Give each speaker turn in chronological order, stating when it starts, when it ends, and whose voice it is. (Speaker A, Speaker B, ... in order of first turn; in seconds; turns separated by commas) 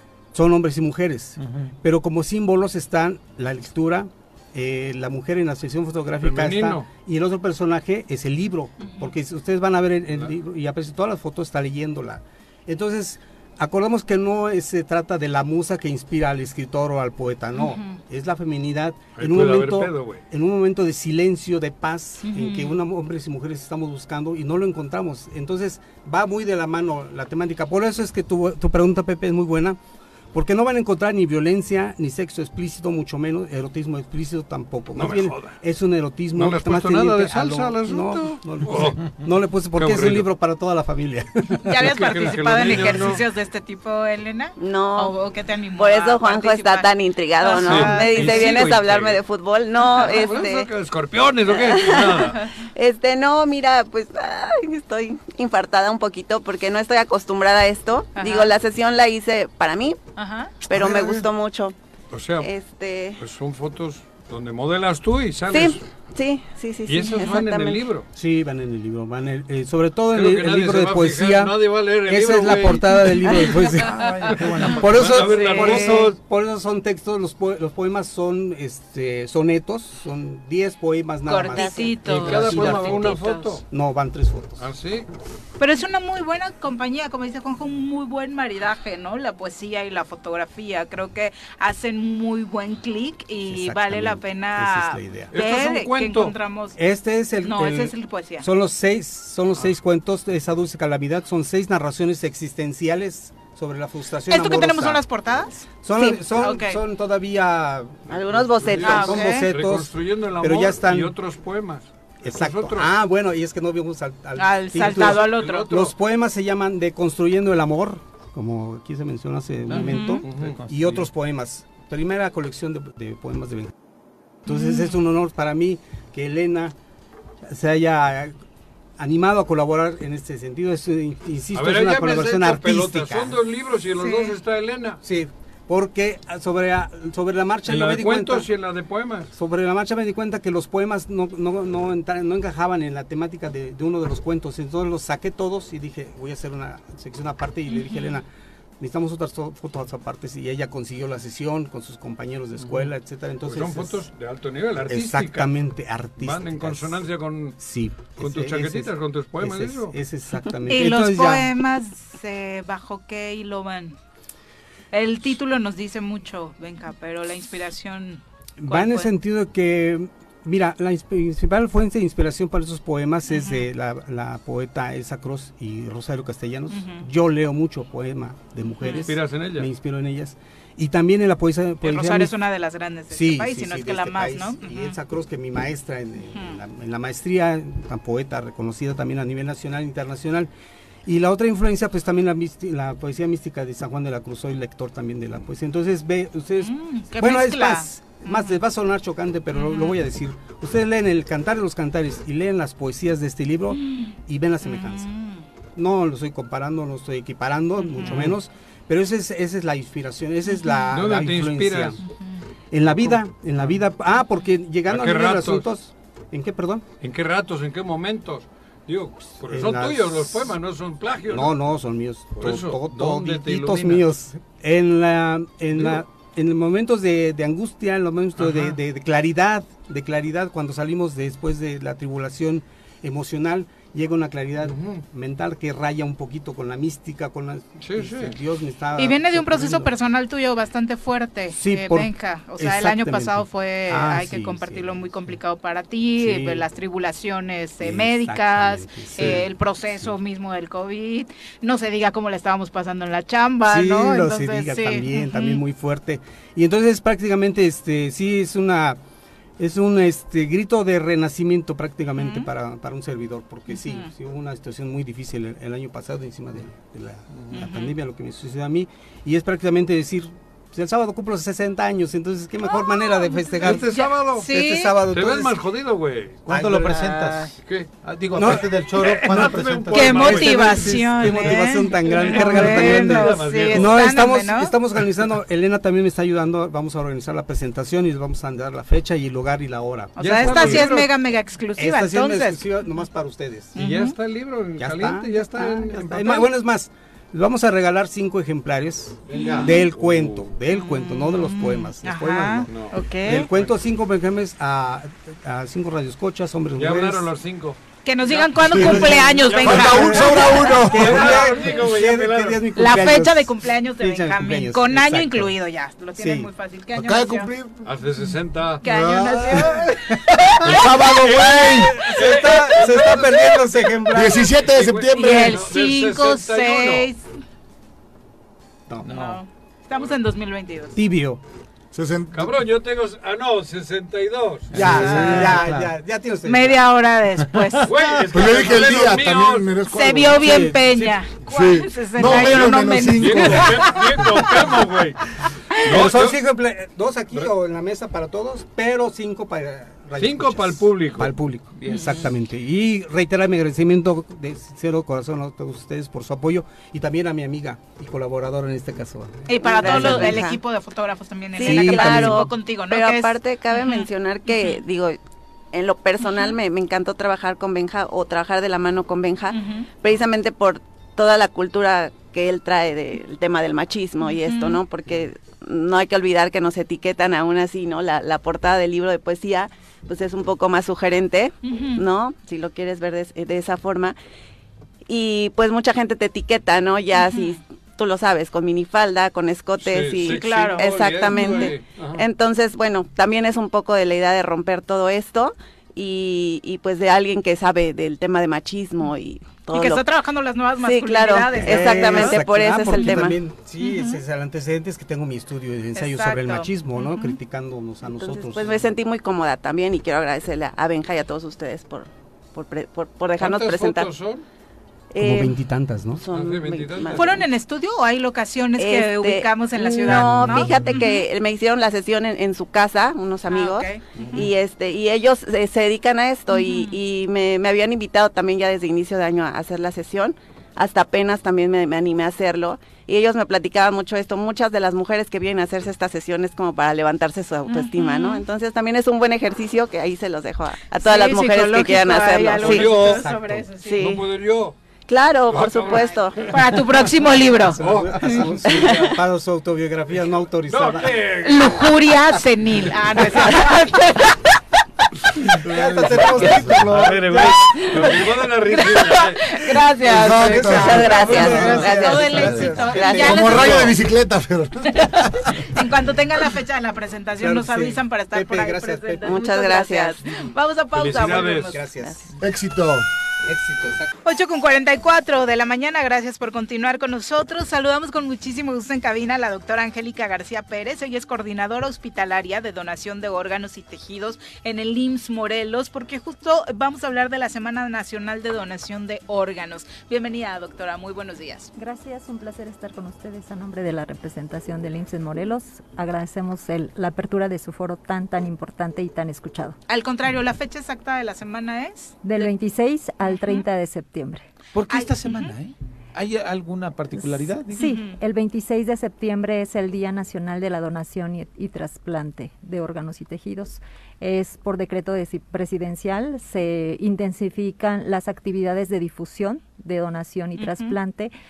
Speaker A: 0.3-29.8, Speaker B: 1.4-1.7, Speaker C: 6.2-6.9, Speaker D: 8.8-9.1, Speaker D: 17.5-18.0, Speaker C: 19.1-20.2, Speaker D: 22.2-22.8, Speaker A: 30.3-41.6, Speaker C: 34.9-35.6, Speaker C: 36.4-39.0, Speaker C: 39.7-40.3, Speaker D: 41.6-48.7, Speaker C: 41.8-43.2, Speaker E: 44.6-45.1, Speaker E: 45.7-50.7, Speaker C: 47.5-49.2, Speaker C: 49.8-52.4, Speaker E: 51.5-60.0, Speaker D: 58.1-58.5, Speaker D: 60.2-60.5, Speaker E: 60.7-61.7, Speaker F: 60.7-61.3, Speaker C: 62.1-62.5, Speaker E: 62.4-63.2, Speaker C: 63.2-65.8, Speaker E: 65.5-67.8, Speaker C: 66.8-68.0, Speaker A: 68.1-83.1, Speaker C: 70.1-73.5, Speaker B: 73.9-75.2, Speaker D: 74.0-74.6, Speaker C: 74.3-76.2, Speaker D: 75.2-76.1, Speaker D: 81.2-83.3, Speaker E: 81.6-82.0, Speaker C: 82.0-83.6, Speaker E: 82.7-83.5, Speaker A: 83.7-84.6, Speaker C: 84.6-85.1, Speaker D: 85.6-96.8, Speaker A: 93.4-95.3, Speaker C: 95.3-96.3, Speaker A: 96.8-105.0, Speaker D: 97.4-98.5, Speaker D: 104.3-106.8, Speaker A: 105.8-111.2, Speaker E: 108.1-109.3, Speaker C: 108.7-112.9, Speaker D: 108.8-109.5, Speaker A: 112.2-123.7, Speaker D: 114.4-115.7, Speaker C: 114.9-116.0, Speaker C: 119.7-120.6, Speaker D: 119.7-120.2, Speaker B: 120.4-121.0, Speaker A: 124.5-126.7, Speaker D: 124.5-125.0, Speaker A: 127.4-128.3, Speaker A: 129.0-133.4, Speaker C: 131.5-135.0, Speaker D: 134.0-134.3, Speaker A: 135.0-138.5, Speaker C: 137.7-139.3, Speaker A: 139.3-148.3, Speaker D: 147.7-148.2, Speaker A: 148.8-154.0, Speaker C: 152.6-152.9, Speaker C: 153.4-155.5, Speaker A: 154.9-157.0, Speaker C: 156.2-157.6, Speaker A: 157.6-161.5, Speaker C: 158.2-160.0, Speaker D: 160.7-164.0, Speaker D: 164.9-169.1, Speaker A: 168.6-182.3, Speaker D: 173.3-173.7, Speaker D: 176.7-177.1, Speaker D: 178.8-179.1, Speaker C: 179.0-179.7, Speaker D: 181.8-184.9, Speaker A: 183.1-190.5, Speaker A: 191.1-205.1, Speaker D: 196.6-198.6, Speaker D: 199.5-200.0, Speaker D: 203.8-204.1, Speaker D: 204.6-205.4, Speaker A: 205.8-212.0, Speaker D: 207.8-208.3, Speaker D: 210.5-210.9, Speaker C: 210.9-212.0, Speaker A: 212.7-216.8, Speaker C: 213.0-213.8, Speaker C: 214.9-215.7, Speaker C: 217.0-221.6, Speaker A: 219.5-220.6, Speaker A: 221.3-239.9, Speaker C: 222.3-224.1, Speaker C: 225.8-226.0, Speaker C: 228.4-228.8, Speaker C: 234.6-235.0, Speaker C: 237.8-238.4, Speaker D: 239.0-255.6, Speaker A: 241.5-245.4, Speaker A: 246.2-246.7, Speaker A: 247.8-250.1, Speaker A: 253.6-259.0, Speaker A: 259.6-275.6, Speaker D: 262.1-262.5, Speaker D: 263.7-264.1, Speaker D: 267.6-267.9, Speaker D: 272.7-273.8, Speaker C: 273.6-274.5, Speaker D: 274.4-274.9, Speaker C: 275.1-276.5, Speaker A: 276.5-277.5, Speaker B: 276.5-280.9, Speaker C: 277.6-284.1, Speaker A: 278.3-278.6, Speaker D: 279.9-284.7, Speaker A: 279.9-291.1, Speaker D: 290.1-292.7, Speaker C: 290.2-291.1, Speaker A: 291.8-293.8, Speaker D: 293.8-294.1, Speaker C: 293.8-296.4, Speaker A: 294.8-307.3, Speaker B: 295.9-296.3, Speaker C: 299.3-300.5, Speaker B: 299.3-299.8, Speaker D: 300.7-303.5, Speaker C: 302.7-302.9, Speaker C: 306.8-313.1, Speaker D: 308.0-310.5, Speaker A: 308.7-315.5, Speaker F: 308.7-311.6, Speaker D: 312.8-317.5, Speaker A: 316.2-316.5, Speaker F: 316.9-317.9, Speaker C: 317.8-318.8, Speaker D: 318.8-319.9, Speaker F: 318.8-319.9, Speaker F: 320.6-322.1, Speaker C: 320.6-323.9, Speaker A: 321.3-324.5, Speaker F: 324.1-325.6, Speaker C: 324.6-327.1, Speaker D: 325.1-327.2, Speaker A: 328.9-329.2, Speaker B: 329.0-329.4, Speaker D: 329.1-330.9, Speaker A: 330.9-331.4, Speaker F: 331.9-332.5, Speaker C: 332.3-334.8, Speaker B: 334.7-335.9, Speaker A: 334.7-336.8, Speaker F: 334.8-335.5, Speaker D: 335.0-335.4, Speaker D: 336.4-338.1, Speaker C: 337.8-339.7, Speaker F: 338.3-340.8, Speaker D: 339.9-343.9, Speaker A: 340.4-341.3, Speaker F: 341.4-344.0, Speaker C: 343.2-345.2, Speaker C: 345.8-346.4, Speaker A: 345.9-360.4, Speaker C: 350.2-351.4, Speaker B: 351.8-352.1, Speaker D: 359.5-364.8, Speaker E: 359.6-360.6, Speaker E: 361.6-365.2, Speaker A: 361.6-362.5, Speaker E: 365.7-384.1, Speaker D: 366.2-366.5, Speaker D: 369.5-369.9, Speaker D: 374.2-374.8, Speaker D: 381.6-382.0, Speaker E: 385.1-400.1, Speaker D: 387.2-387.6, Speaker C: 389.8-392.2, Speaker D: 390.2-391.7, Speaker D: 399.7-404.2, Speaker E: 400.8-403.4, Speaker A: 401.6-408.8, Speaker D: 405.9-407.4, Speaker E: 408.1-414.1, Speaker C: 413.4-414.4, Speaker E: 415.1-415.6, Speaker A: 415.2-416.2, Speaker E: 416.2-417.4, Speaker C: 416.2-417.4, Speaker D: 417.1-421.2, Speaker E: 418.8-443.1, Speaker D: 423.5-424.5, Speaker C: 424.2-424.5, Speaker D: 426.5-427.0, Speaker D: 437.7-438.4, Speaker D: 440.9-444.1, Speaker C: 442.6-443.3, Speaker A: 443.0-443.7, Speaker E: 443.8-444.2, Speaker C: 444.0-444.8, Speaker E: 445.1-446.5, Speaker C: 445.5-446.6, Speaker D: 445.7-447.8, Speaker A: 447.8-451.2, Speaker C: 447.8-449.2, Speaker C: 450.7-451.9, Speaker D: 451.4-454.4, Speaker F: 455.6-457.1, Speaker A: 455.6-457.6, Speaker C: 456.9-459.6, Speaker D: 457.7-463.9, Speaker F: 460.0-465.5, Speaker E: 460.3-463.9, Speaker D: 464.9-471.8, Speaker A: 467.4-469.5, Speaker E: 469.2-470.2, Speaker C: 470.9-471.8, Speaker A: 471.2-472.3, Speaker F: 472.4-473.1, Speaker A: 473.4-474.1, Speaker D: 474.2-491.7, Speaker G: 491.8-499.8, Speaker D: 499.9-502.5, Speaker G: 502.2-504.4, Speaker D: 503.2-503.6, Speaker B: 504.7-507.9, Speaker D: 504.9-505.5, Speaker G: 507.2-521.3, Speaker D: 507.7-508.1, Speaker D: 520.6-520.9